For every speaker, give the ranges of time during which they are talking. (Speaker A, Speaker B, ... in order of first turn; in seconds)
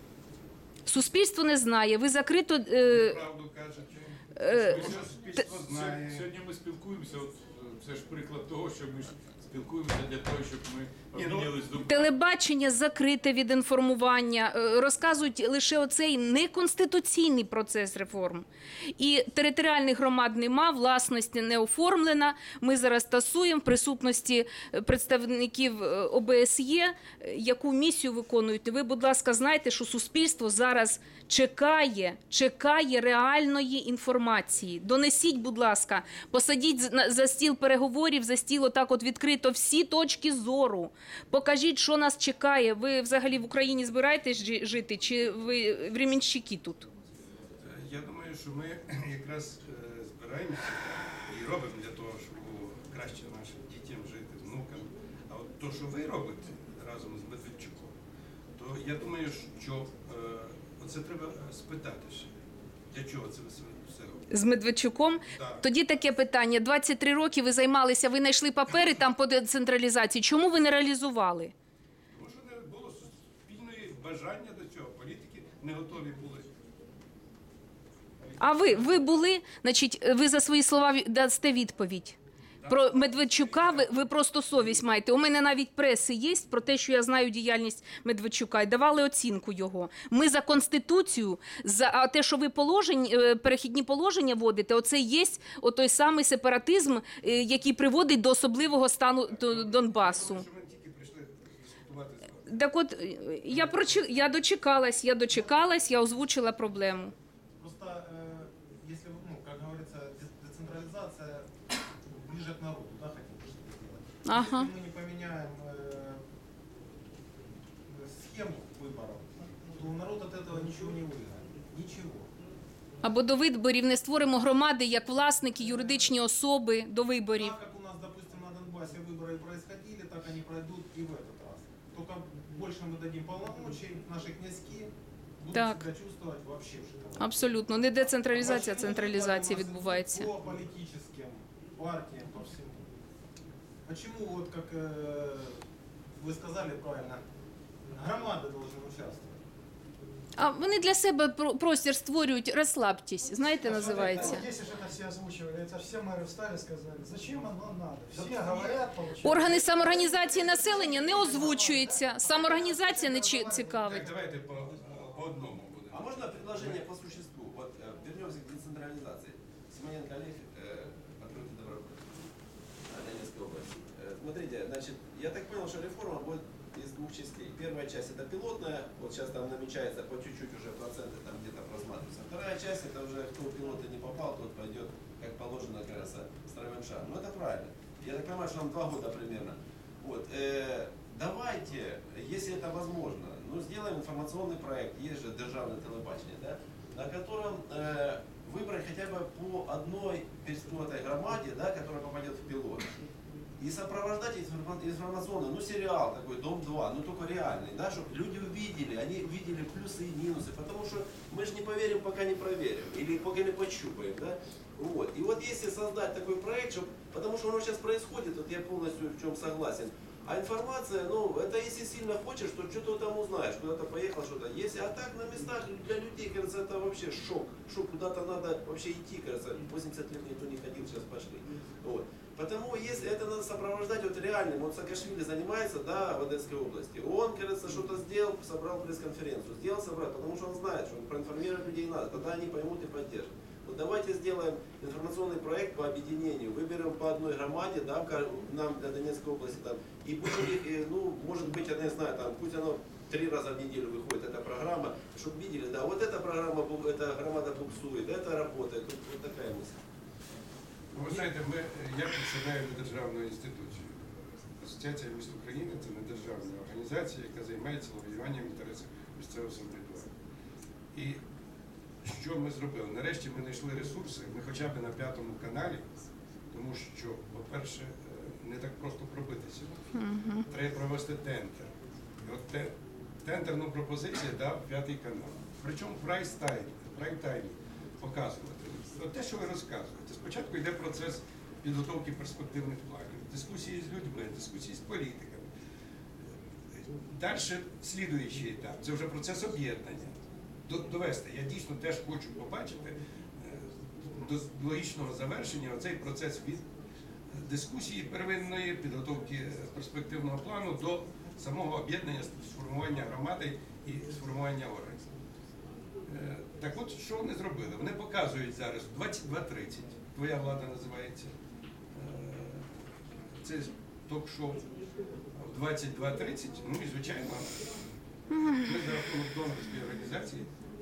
Speaker A: 0.9-3.2, 4.4-5.1, 11.9-18.5, 19.0-46.9, 64.3-71.5, 78.4-100.5, 102.5-107.1, 114.2-114.7, 123.0-127.5, 135.5-135.8, 137.2-140.3, 150.4-154.5, 159.2-164.1, 279.9-280.4
Speaker B: 2.9-6.2, 11.2-11.5, 47.6-58.0, 58.6-62.3, 62.9-64.3, 65.2-65.7, 72.1-76.5, 78.2-79.2, 82.6-84.1, 99.3-102.8, 163.8-166.8, 260.9-263.9, 264.6-270.1, 270.9-271.2, 272.0-275.9, 276.5-279.8, 280.5-295.5, 296.2-306.7, 307.3-315.1, 316.1-321.3, 321.9-322.7, 323.4-324.7, 325.3-327.7, 328.4-330.5
Speaker C: 4.9-12.1
Speaker D: 107.6-111.5, 112.1-116.2, 117.9-122.3, 125.6-126.1, 127.3-142.9, 143.9-145.6, 146.1-147.2, 147.9-149.4, 153.8-154.4, 158.1-158.7, 159.5-161.8
Speaker E: 153.5-161.1, 161.7-164.3
Speaker F: 165.9-172.1, 172.9-202.9, 203.6-259.8